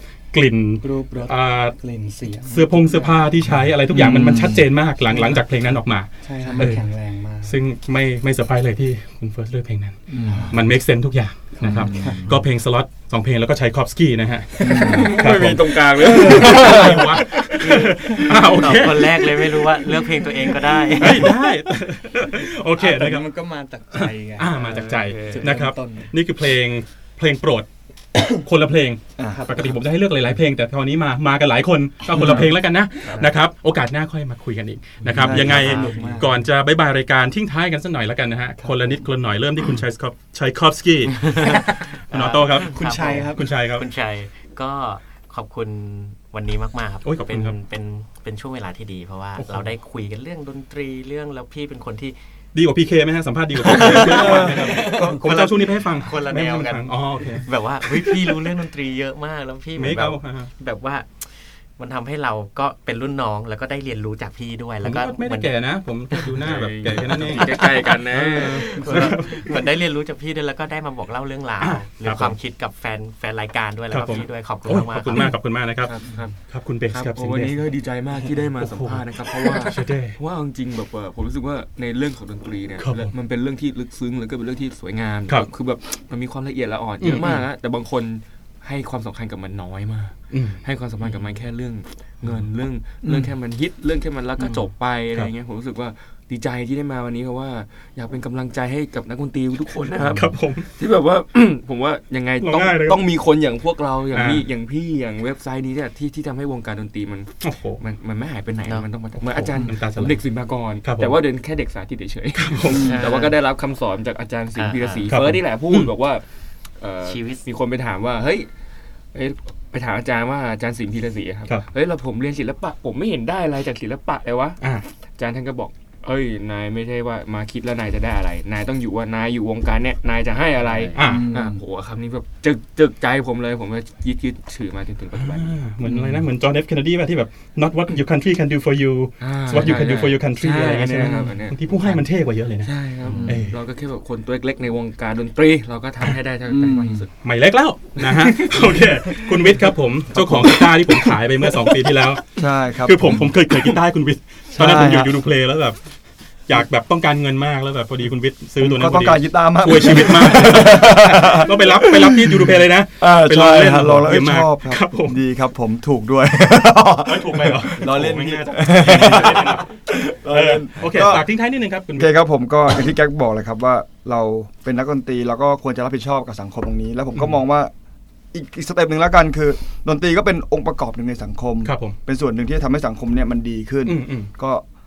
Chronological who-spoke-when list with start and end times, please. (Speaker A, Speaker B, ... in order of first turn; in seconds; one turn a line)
Speaker A: 0.3-1.8
Speaker B: 0.8-3.4
Speaker A: 2.4-6.8
Speaker C: 3.9-4.7
Speaker B: 5.1-7.6
Speaker A: 7.4-10.0
Speaker C: 10.1-10.5
Speaker B: 10.2-10.6
Speaker A: 10.5-19.8
Speaker B: 11.6-12.4
Speaker C: 11.6-12.3
Speaker B: 14.6-15.2
Speaker C: 14.6-15.1
Speaker D: 14.7-17.9
Speaker C: 16.0-17.0
Speaker E: 17.6-21.4
Speaker A: 20.9-23.3
Speaker B: 22.8-26.1
Speaker A: 23.9-27.7
Speaker D: 24.5-25.5
Speaker A: 28.3-41.6
Speaker C: 29.2-29.4
Speaker B: 29.3-29.8
Speaker C: 32.1-32.4
Speaker C: 35.1-35.7
Speaker B: 35.1-36.5
Speaker E: 35.4-36.2
Speaker E: 41.1-52.2
Speaker A: 42.1-43.9
Speaker B: 42.6-43.5
Speaker A: 47.0-47.6
Speaker A: 49.4-49.7
Speaker A: 52.5-57.5
Speaker E: 53.6-65.5
Speaker C: 53.8-55.5
Speaker A: 59.8-60.5
Speaker A: 64.8-69.7
Speaker E: 66.1-75.4
Speaker D: 66.4-69.1
Speaker B: 68.8-69.2
Speaker A: 71.6-72.3
Speaker A: 73.9-77.6
Speaker D: 75.8-116.2
Speaker A: 78.5-80.2
Speaker A: 82.8-83.1
Speaker A: 87.0-87.4
Speaker A: 90.3-90.6
Speaker E: 94.4-94.7
Speaker A: 100.1-100.7
Speaker A: 102.4-103.0
Speaker A: 104.1-104.4
Speaker A: 107.4-107.8
Speaker A: 109.2-110.2
Speaker A: 110.8-111.2
Speaker A: 112.3-113.0
Speaker C: 112.7-113.0
Speaker E: 112.7-113.3
Speaker E: 114.5-115.1
Speaker A: 115.1-115.9
Speaker D: 116.8-118.5
Speaker E: 117.0-117.4
Speaker D: 119.1-124.6
Speaker A: 124.6-124.9
Speaker D: 125.2-136.2
Speaker E: 130.7-131.0
Speaker A: 130.9-131.3
Speaker C: 131.0-131.6
Speaker A: 135.1-142.7
Speaker D: 139.2-142.0
Speaker D: 142.6-147.1
Speaker E: 143.1-143.4
Speaker A: 143.2-143.6
Speaker C: 146.5-147.0
Speaker A: 147.2-152.2
Speaker D: 148.0-149.5
Speaker C: 152.4-153.3
Speaker A: 152.8-155.8
Speaker C: 154.6-155.1
Speaker A: 156.5-165.2
Speaker C: 158.6-171.2
Speaker A: 167.0-172.1
Speaker C: 172.0-177.7
Speaker C: 178.3-184.6
Speaker A: 181.6-181.9
Speaker A: 183.8-184.3